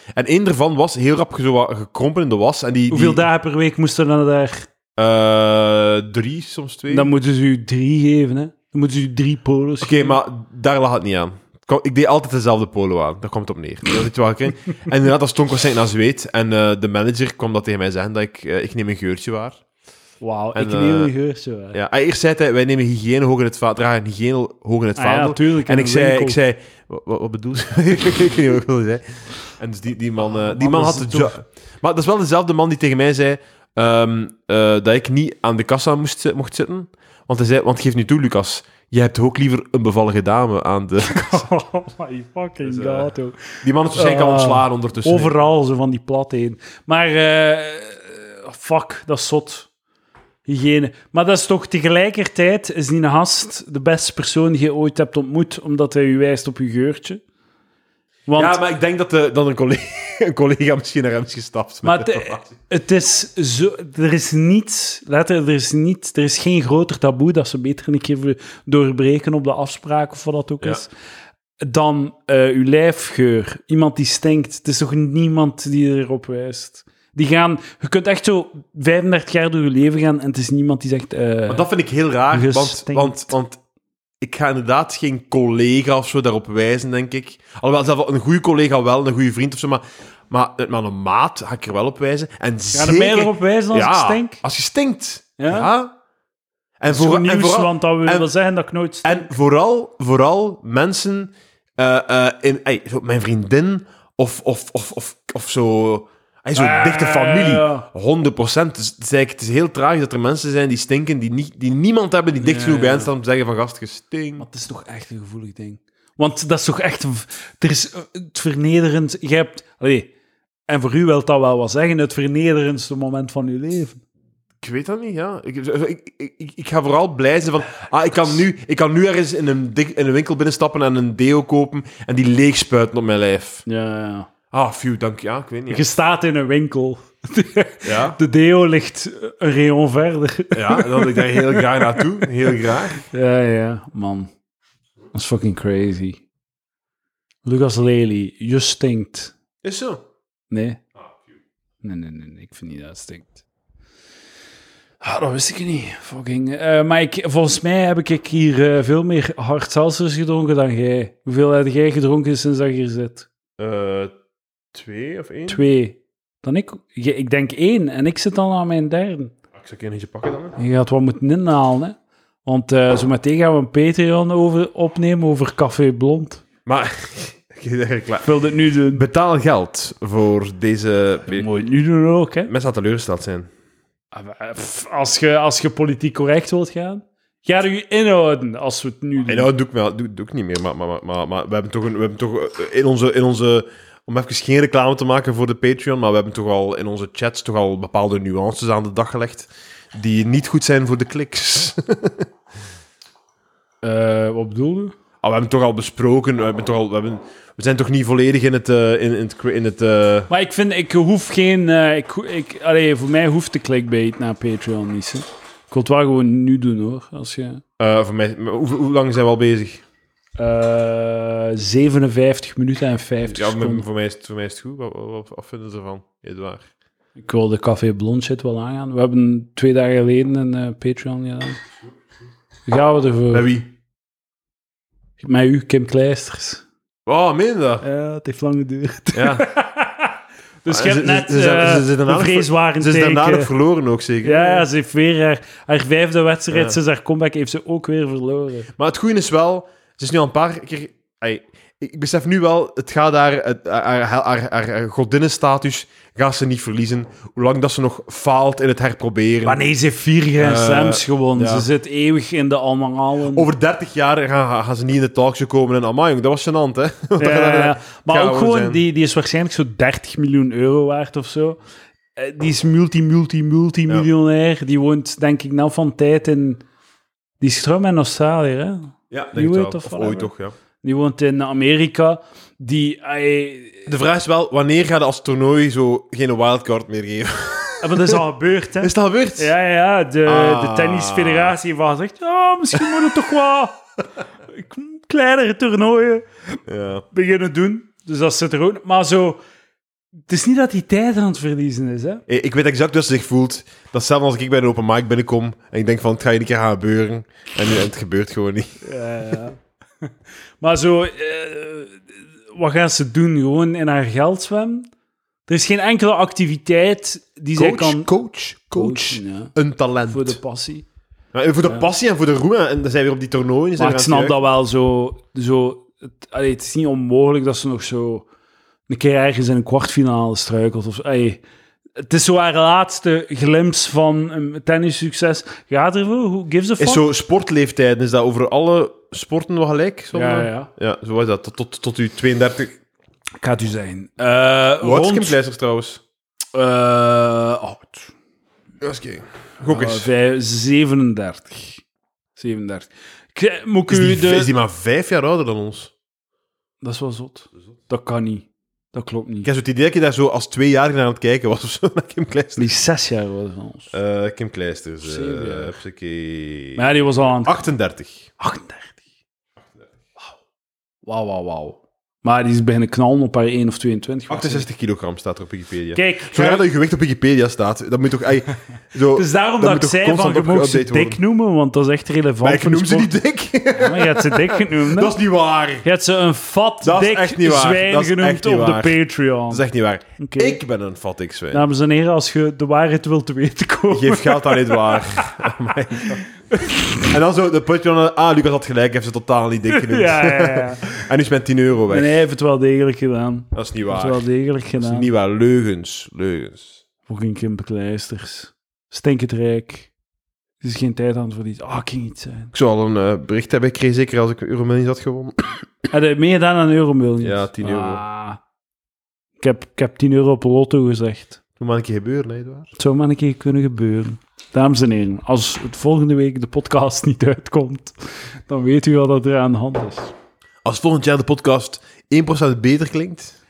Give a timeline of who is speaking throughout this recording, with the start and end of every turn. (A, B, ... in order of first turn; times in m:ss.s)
0:00.2-0:03.3 A
0:02.9-0:04.7 B
0:05.0-0:07.1 A
0:06.9-0:10.2 B
0:09.8-0:19.6 A
0:20.2-0:21.8 B
0:20.6-0:21.1 A
0:21.7-0:41.5 A
0:25.0-0:26.4 B
0:30.3-0:31.4 B
0:41.0-0:49.7 B
0:42.6-0:43.1 A
0:43.6-0:45.4 A
0:50.5-0:57.2 B
0:58.3-0:58.6 B
0:58.4-1:02.5 A
1:01.8-1:10.9 B
1:11.6-1:21.7 B
1:21.5-1:23.6 A
1:22.3-1:23.3 B
1:24.2-1:35.9 A
1:32.7-1:34.4 B
1:35.4-1:35.7 B
1:36.8-1:38.3 A
1:36.9-1:39.3 B
1:39.0-1:54.4 A
1:46.6-1:47.9 B
1:52.4-1:53.1 B
1:54.4-2:00.1 B
2:00.7-2:04.0 B
2:04.6-2:13.6 A
2:13.7-2:14.3 B
2:14.5-2:15.9 A
2:15.7-2:24.3 B
2:17.8-2:18.2 A
2:20.5-2:23.0 A
2:25.1-2:26.2 B
2:27.4-2:29.4 B
2:29.6-2:30.0 A
2:30.5-2:30.8 B
2:31.8-2:33.4 B
2:35.0-2:43.3 B
2:43.6-2:44.1 A
2:44.7-2:45.7 A
2:45.5-2:49.3 B
2:49.6-2:50.6 A
2:50.6-2:56.4 B
2:56.7-2:58.3 A
2:58.2-2:59.0 B
2:58.9-3:01.5 A
3:01.3-3:02.5 B
3:02.5-3:03.5 A
3:04.1-3:09.5 B
3:09.3-3:22.3 A
3:23.8-3:25.0 B
3:25.2-3:30.3 A
3:30.3-3:37.6 B
3:37.8-3:39.8 A
3:40.4-3:43.8 B
3:43.3-3:46.7 A
3:47.2-3:51.6 B
3:52.7-3:53.5 B
3:53.3-3:53.7 A
3:55.2-3:56.6 B
3:57.1-3:57.8 A
3:57.8-4:00.1 B
3:59.1-3:59.5 A
4:00.6-4:03.5 B
4:00.7-4:04.7 A
4:04.2-4:08.7 B
4:06.5-4:06.8 A
4:08.8-4:19.6 A
4:19.5-4:23.5 B
4:20.4-4:21.7 A
4:23.3-4:28.8 A
4:27.2-4:31.6 B
4:32.2-4:36.6 B
4:37.4-4:40.3 B
4:39.1-4:40.5 A
4:40.8-4:43.9 B
4:43.9-4:48.2 A
4:47.8-4:53.8 B
4:48.8-4:49.5 A
4:50.2-4:51.6 A
4:52.7-4:53.0 A
4:54.5-4:56.3 B
4:56.7-4:57.0 A
4:57.1-4:59.4 B
5:00.3-5:02.2 B
5:02.3-5:09.4 A
5:08.8-5:09.6 B
5:10.6-5:12.0 B
5:12.6-5:14.9 B
5:15.5-5:18.1 B
5:17.6-5:20.4 A
5:18.8-5:19.5 B
5:20.1-5:20.8 B
5:21.3-5:24.4 A
5:23.8-5:28.3 B
5:28.9-5:31.4 B
5:32.0-5:37.0 B
5:36.8-5:42.8 A
5:40.1-5:40.7 B
5:43.4-5:45.4 B
5:44.8-5:46.0 A
5:46.5-5:48.1 B
5:48.8-5:50.1 A
5:49.6-5:51.8 B
5:52.4-5:54.5 B
5:53.9-5:55.9 A
5:56.8-5:59.5 B
5:59.4-6:02.7 A
6:02.6-6:03.9 B
6:03.9-6:06.8 A
6:05.0-6:05.8 B
6:06.8-6:07.6 B
6:07.4-6:08.3 A
6:08.4-6:09.0 B
6:11.1-6:14.6 B
6:14.3-6:21.2 A
6:15.9-6:16.6 B
6:19.2-6:23.1 B
6:22.4-6:25.8 A
6:23.7-6:25.2 B
6:25.8-6:29.6 B
6:26.8-6:31.6 A
6:30.2-6:30.6 B
6:31.5-6:35.0 B
6:33.9-6:36.2 A
6:36.0-6:37.1 B
6:37.0-6:42.2 A
6:39.7-6:40.9 B
6:41.9-6:45.1 B
6:43.5-6:44.2 A
6:44.8-6:46.8 A
6:47.1-6:49.9 B
6:50.6-6:52.5 B
6:52.5-6:55.5 A
6:55.9-6:58.4 B
6:57.2-6:58.0 A
6:59.4-7:01.4 B
7:01.6-7:02.7 A
7:02.8-7:07.9 B
7:08.5-7:10.1 B
7:10.6-7:13.4 A